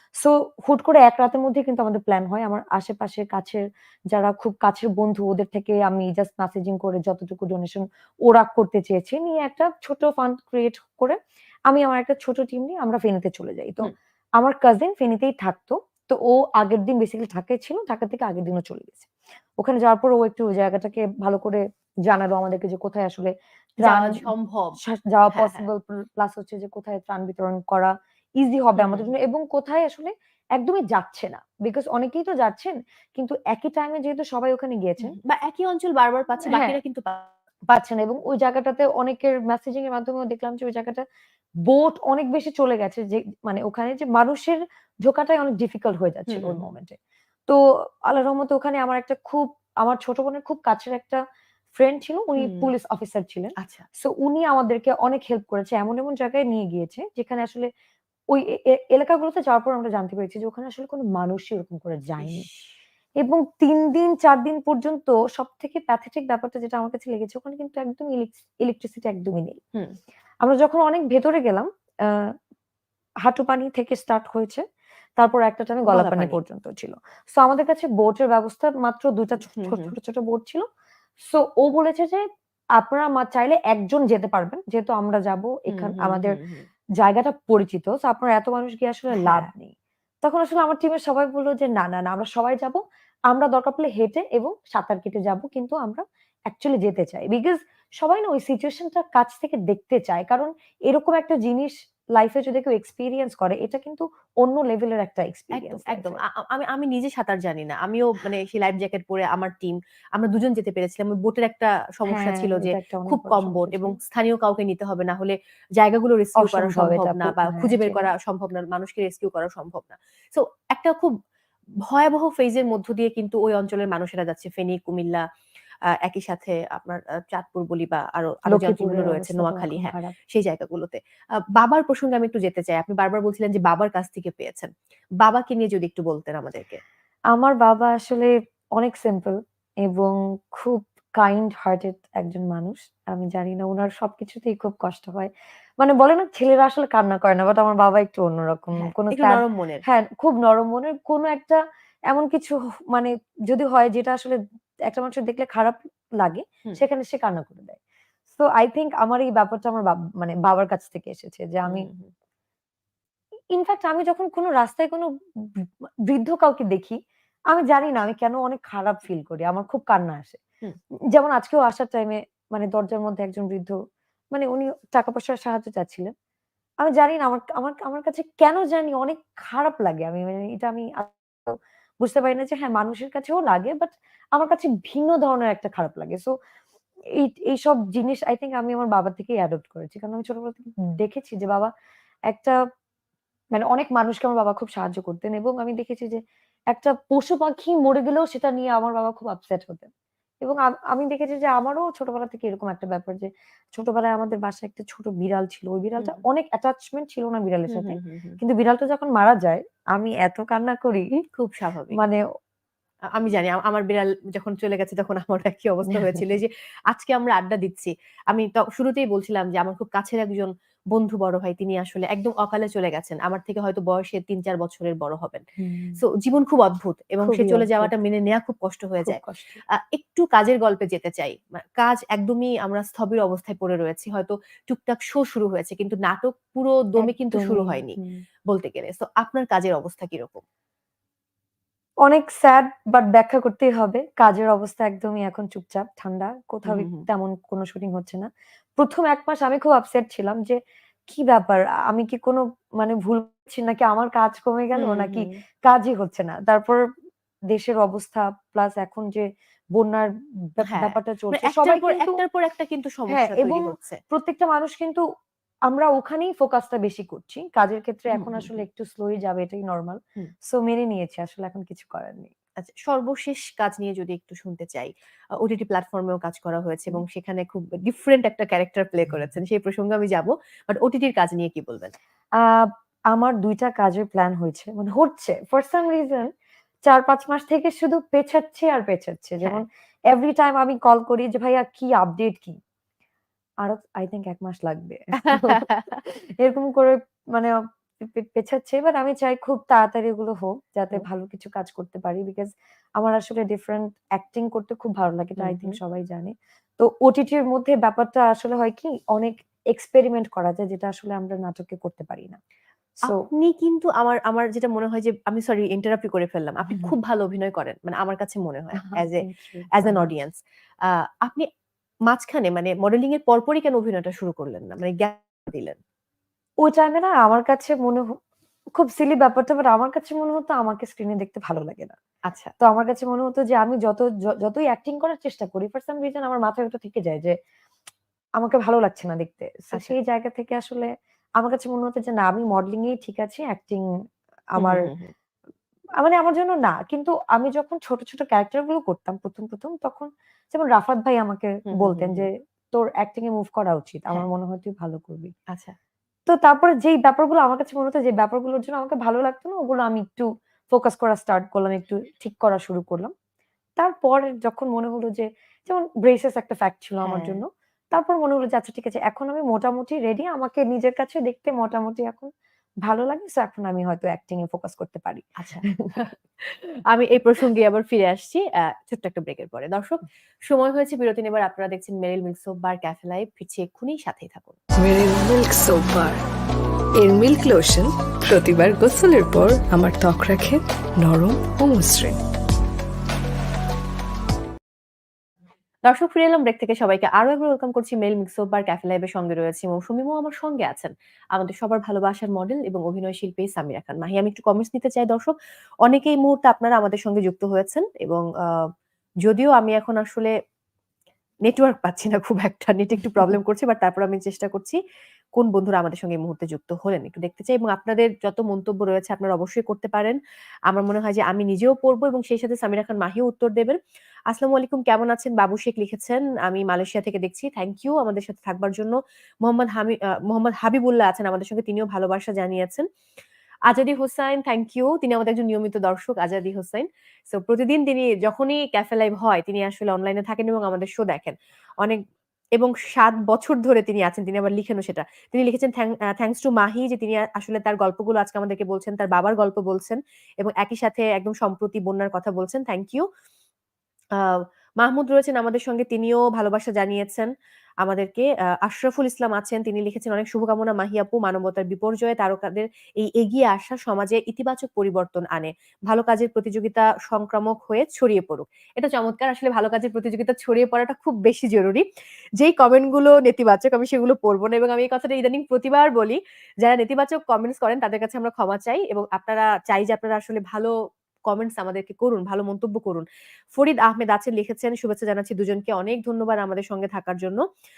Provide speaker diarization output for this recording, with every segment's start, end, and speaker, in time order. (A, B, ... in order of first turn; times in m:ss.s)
0:00.2-0:11.2 A
0:11.7-0:19.1 A
0:19.6-0:24.3 A
0:23.8-0:24.8 B
0:24.8-0:35.2 A
0:25.3-0:25.7 B
0:28.8-0:29.1 B
0:35.0-0:37.3 B
0:36.4-0:36.8 A
0:37.7-0:41.0 A
0:41.7-0:47.0 A
0:46.3-0:46.6 B
0:47.5-0:51.2 A
0:51.8-0:57.7 A
0:52.4-0:52.7 B
0:53.6-0:53.9 B
0:58.3-1:02.5 A
1:02.2-1:02.8 B
1:03.2-1:09.6 A
1:10.4-1:12.3 A
1:13.2-1:14.6 A
1:15.2-1:20.6 A
1:15.9-1:16.4 B
1:19.6-1:19.9 B
1:21.2-1:22.2 A
1:22.8-1:26.4 A
1:25.7-1:26.7 B
1:27.0-1:46.2 A
1:29.1-1:29.5 B
1:45.5-2:01.1 B
1:52.1-1:54.0 A
1:56.4-1:58.1 A
2:01.9-2:05.2 B
2:06.0-2:11.0 B
2:08.5-2:10.1 A
2:11.6-2:14.7 B
2:15.2-2:16.8 B
2:17.3-2:37.8 A
2:28.8-2:29.8 B
2:38.3-2:41.9 A
2:41.6-2:42.1 B
2:43.5-2:47.0 A
2:47.5-2:50.4 A
2:51.1-2:53.8 A
2:54.3-2:56.1 A
2:56.8-3:06.3 A
3:07.2-3:11.7 A
3:12.3-3:12.6 A
3:13.5-3:16.2 A
3:16.7-3:19.9 A
3:20.4-3:31.2 A
3:27.7-3:28.4 B
3:31.4-3:32.0 B
3:31.9-3:32.2 A
3:33.2-3:45.4 B
3:45.6-3:46.0 A
3:46.0-3:49.2 B
3:47.2-3:47.9 A
3:49.0-3:49.6 A
3:49.7-3:58.0 B
3:57.0-3:58.2 A
3:58.5-4:00.4 B
4:02.0-4:10.6 A
4:06.7-4:07.1 B
4:11.1-4:16.8 A
4:14.8-4:15.4 B
4:17.5-4:22.2 A
4:20.6-4:24.0 B
4:23.1-4:25.0 A
4:25.7-4:32.3 A
4:28.1-4:28.6 B
4:32.6-4:41.9 B
4:42.4-4:46.3 A
4:46.9-4:52.6 A
4:53.6-5:12.4 A
4:55.3-4:55.8 B
5:05.4-5:05.8 B
5:13.1-5:21.5 B
5:18.7-5:20.1 A
5:22.1-5:25.8 B
5:26.6-5:28.2 A
5:28.8-5:32.0 A
5:32.6-5:37.4 A
5:38.4-5:43.9 A
5:44.6-5:44.9 A
5:44.6-5:45.1 B
5:46.0-5:55.3 A
5:51.7-5:52.3 B
5:56.3-6:03.1 A
6:03.8-6:12.3 A
6:07.0-6:07.4 B
6:12.8-6:15.3 A
6:15.4-6:24.6 B
6:24.8-6:26.2 C
6:27.0-6:32.2 C
6:35.9-6:45.3 B
6:45.8-6:48.6 B
6:49.2-6:50.3 B
6:51.5-6:54.8 B
6:55.4-7:00.2 B
7:00.7-7:03.8 B
7:04.3-7:12.9 B
7:13.7-7:22.0 B
7:22.6-7:33.1 B
7:34.2-7:37.3 B
7:37.8-7:51.8 B
7:52.4-8:00.7 B
8:01.3-8:07.4 B